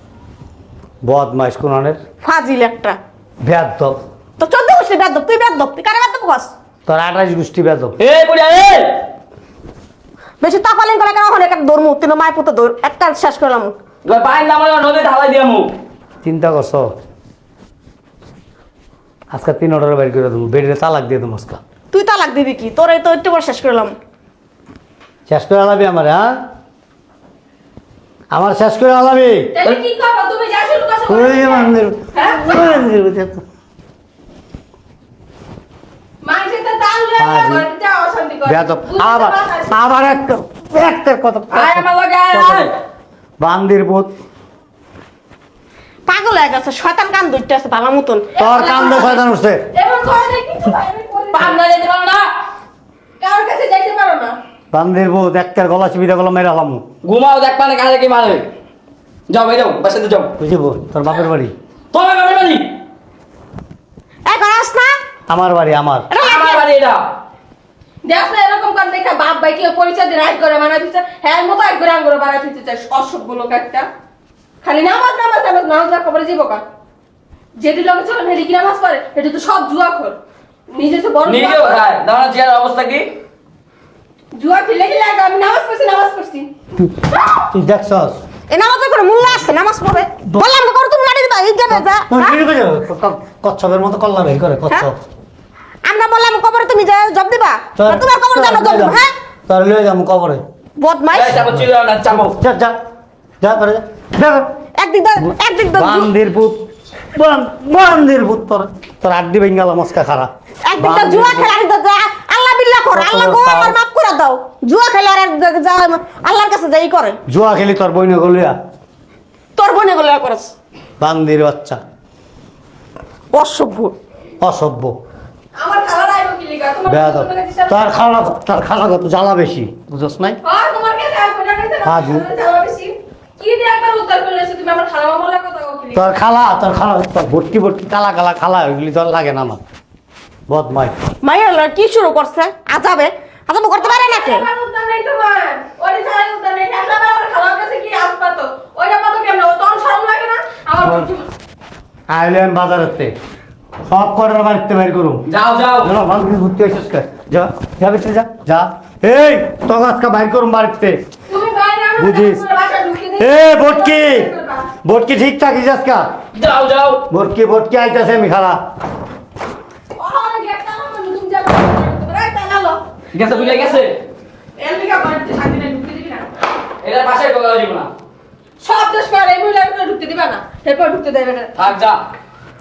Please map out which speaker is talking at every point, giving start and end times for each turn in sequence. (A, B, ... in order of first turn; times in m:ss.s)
0:01.0-0:02.0 A
0:02.2-0:03.0 B
0:03.4-0:04.0 A
0:04.4-0:06.5 B
0:06.9-0:08.0 A
0:08.0-0:09.0 C
0:10.4-0:13.7 B
0:14.0-0:15.7 C
0:16.2-0:16.9 A
0:19.3-0:21.6 A
0:21.9-0:23.9 B
0:25.3-0:26.3 A
0:28.3-0:29.5 A
0:29.5-0:32.6 D
0:31.1-0:33.4 A
0:36.2-0:39.8 D
0:37.2-0:37.7 A
0:38.4-0:42.7 A
0:41.5-0:42.7 C
0:43.4-0:44.1 A
0:46.1-0:48.3 B
0:48.4-0:49.6 A
0:48.4-0:51.6 D
0:51.3-0:52.3 C
0:53.2-0:54.4 D
0:54.7-0:56.8 A
0:57.0-0:58.5 C
0:59.3-1:00.3 C
1:00.4-1:01.5 A
1:01.9-1:02.7 C
1:04.2-1:05.0 B
1:05.3-1:06.1 A
1:06.1-1:06.6 B
1:06.2-1:07.0 C
1:08.0-1:13.9 D
1:14.6-1:16.6 D
1:17.6-1:20.2 D
1:20.7-1:21.8 D
1:21.2-1:23.1 C
1:24.3-1:26.5 D
1:26.8-1:28.2 A
1:28.5-1:32.4 B
1:31.7-1:35.0 A
1:35.8-1:39.1 B
1:37.8-1:40.4 A
1:40.8-1:41.4 B
1:41.1-1:42.3 C
1:41.4-1:42.8 A
1:43.4-1:44.5 A
1:44.8-1:46.1 B
1:45.2-1:51.5 A
1:50.6-1:57.2 B
1:52.9-1:53.8 A
1:57.3-1:58.5 A
1:59.6-2:00.5 B
2:01.0-2:01.8 A
2:03.3-2:03.9 B
2:04.4-2:04.9 A
2:05.6-2:07.9 D
2:06.9-2:10.4 A
2:10.4-2:16.0 D
2:11.8-2:12.2 A
2:15.9-2:19.6 A
2:20.5-2:21.0 A
2:21.2-2:24.4 B
2:23.8-2:31.3 D
2:30.8-2:31.1 A
2:32.1-2:33.1 A
2:33.8-2:35.2 A
2:35.3-2:35.9 C
2:35.8-2:41.0 A
2:41.3-2:44.7 D
2:42.0-2:42.4 A
2:43.2-2:44.3 A
2:44.8-2:46.1 A
2:46.3-2:47.0 C
2:47.1-2:48.6 A
2:50.0-2:53.8 D
2:53.1-2:53.9 C
2:54.6-2:56.3 D
2:56.8-2:57.9 C
2:58.6-3:01.5 D
3:01.6-3:02.0 C